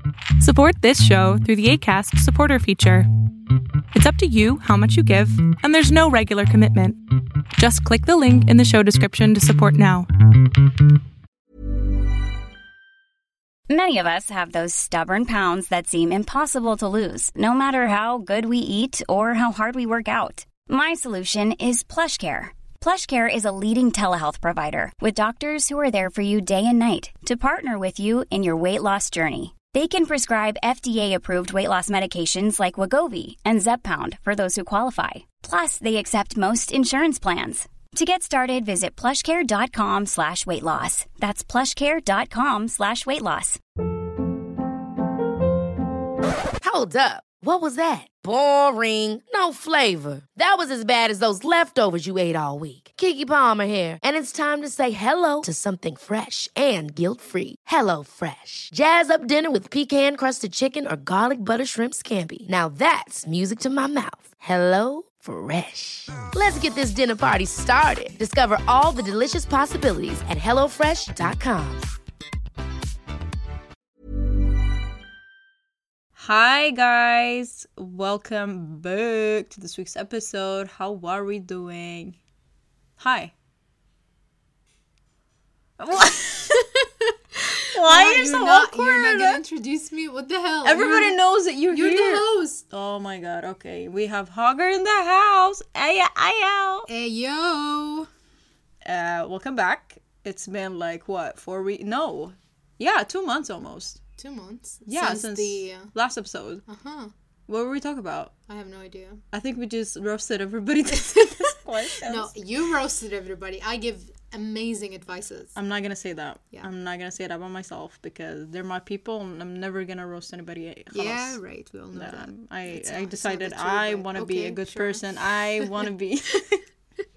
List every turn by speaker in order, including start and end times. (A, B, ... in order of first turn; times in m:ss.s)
0:00.4-0:03.1 A
0:03.9-0:07.0 A
0:07.6-0:10.1 A
0:13.7-0:43.6 B
0:46.6-1:11.9 C
1:16.2-1:22.2 D
1:23.0-1:23.3 D
1:25.8-1:26.6 D
1:26.5-1:26.9 E
1:27.6-1:32.6 E
1:27.8-1:29.4 D
1:30.6-1:36.9 D
1:36.9-1:38.1 E
1:38.8-1:44.0 D
1:44.2-1:45.9 E
1:44.9-1:46.6 D
1:46.7-1:47.1 E
1:47.5-1:48.3 D
1:48.5-1:49.2 E
1:49.3-1:52.3 D
1:51.0-1:55.6 E
1:55.6-2:01.4 D
2:00.9-2:05.0 E
2:01.9-2:06.6 D